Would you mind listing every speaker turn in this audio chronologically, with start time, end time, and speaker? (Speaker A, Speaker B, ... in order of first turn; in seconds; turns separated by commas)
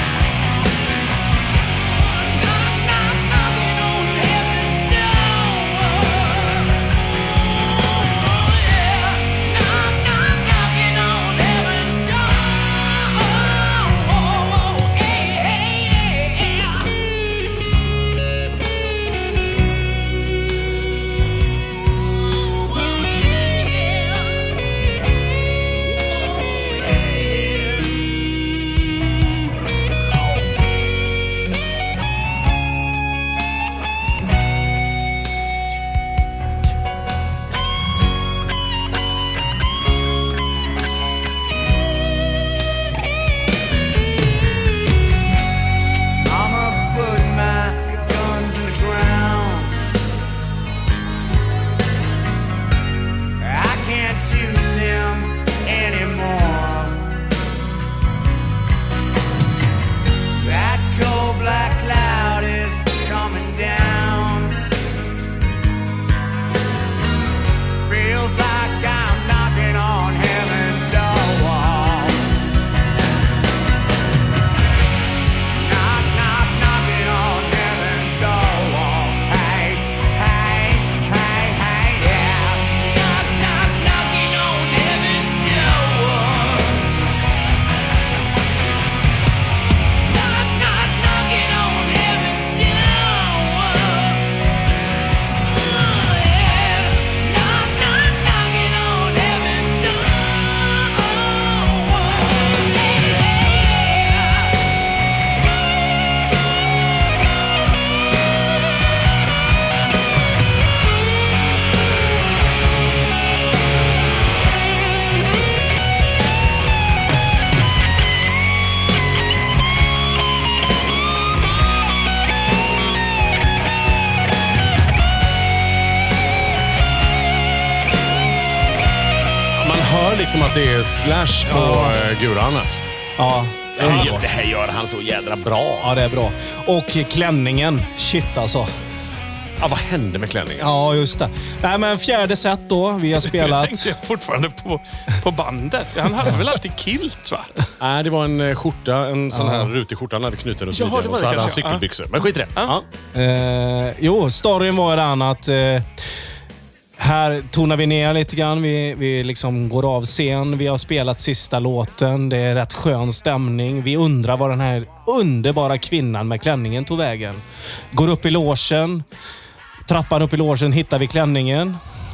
Speaker A: 1.8-6.8, Speaker A: 7.7-16.3, Speaker A: 46.2-49.9, Speaker A: 53.4-57.1, Speaker A: 60.4-64.7, Speaker A: 67.8-72.3, Speaker A: 75.5-86.9, Speaker A: 90.1-94.3, Speaker A: 95.7-104.3, Speaker B: 129.5-132.8, Speaker C: 131.5-132.0, Speaker C: 133.2-134.3, Speaker B: 133.8-135.9, Speaker C: 135.8-138.7, Speaker B: 139.6-140.7, Speaker C: 140.6-143.9, Speaker D: 143.2-147.5, Speaker B: 147.8-152.9, Speaker C: 149.3-149.7, Speaker D: 150.7-151.9, Speaker C: 153.1-155.9, Speaker C: 157.0-167.4, Speaker C: 167.9-169.1, Speaker C: 169.9-171.8